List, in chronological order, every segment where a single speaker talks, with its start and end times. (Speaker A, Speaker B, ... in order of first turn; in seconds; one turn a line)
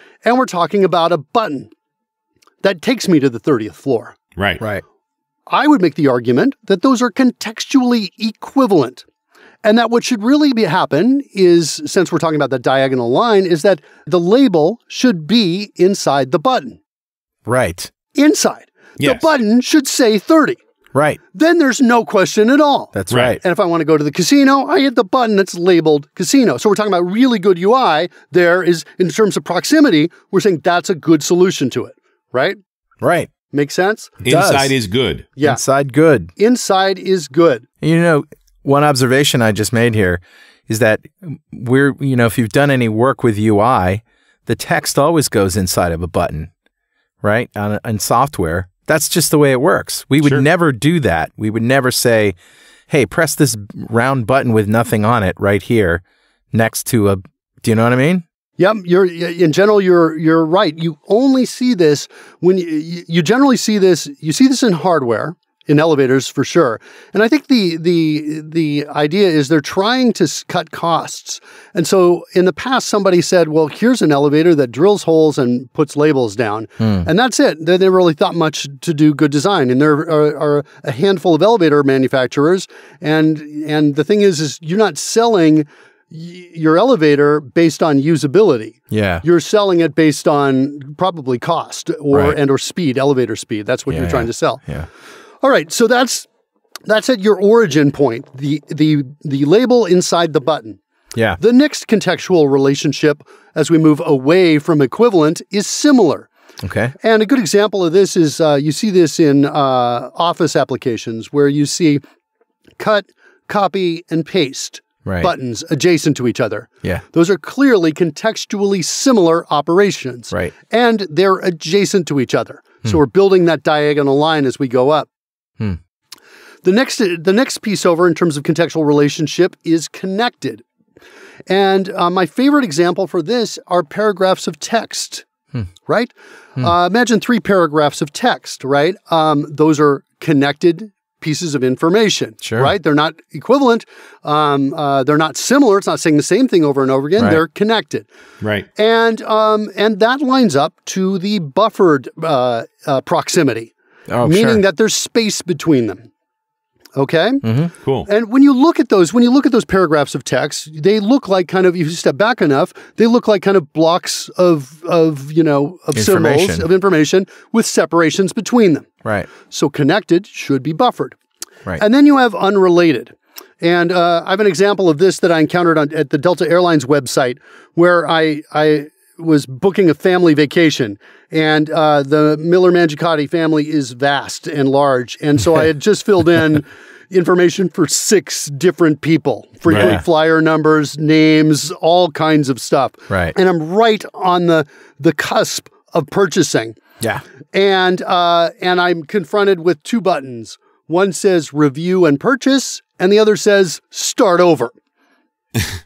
Speaker A: 0.2-1.7
Speaker A: 2.6-4.2
Speaker B: 4.3-4.6
Speaker A: 5.5-9.0
Speaker A: 9.6-16.8
Speaker C: 17.4-17.9
Speaker A: 18.1-20.6
Speaker B: 19.0-19.3
Speaker C: 20.9-21.2
Speaker A: 21.3-32.6
Speaker C: 22.9-23.4
Speaker B: 23.1-23.4
Speaker C: 33.0-33.3
Speaker A: 33.5-34.1
Speaker B: 34.2-35.3
Speaker C: 34.3-34.7
Speaker A: 35.4-35.6
Speaker C: 35.4-36.3
Speaker A: 36.4-37.6
Speaker C: 37.8-46.5
Speaker C: 47.2-52.4
Speaker C: 52.9-58.2
Speaker A: 58.6-94.6
Speaker C: 76.8-77.1
Speaker C: 88.9-89.2
Speaker C: 92.1-92.4
Speaker C: 93.9-94.9
Speaker A: 95.4-96.3
Speaker A: 96.9-100.8
Speaker C: 101.1-101.4
Speaker A: 101.4-106.3
Speaker C: 106.6-106.9
Speaker A: 107.0-112.0
Speaker A: 112.8-125.1
Speaker C: 115.0-115.3
Speaker A: 126.6-130.6
Speaker A: 131.5-135.2
Speaker A: 135.8-148.1
Speaker C: 142.4-142.7
Speaker B: 148.4-148.7
Speaker A: 148.7-153.7
Speaker C: 154.1-154.6
Speaker A: 154.2-156.1
Speaker A: 156.9-157.4
Speaker C: 157.4-157.7
Speaker B: 157.8-158.1
Speaker A: 158.1-168.9
Speaker C: 165.9-166.7
Speaker C: 169.0-169.3
Speaker A: 169.4-171.2
Speaker A: 171.8-196.8
Speaker B: 189.7-190.0
Speaker C: 189.7-190.0
Speaker C: 193.1-193.3
Speaker A: 197.5-204.7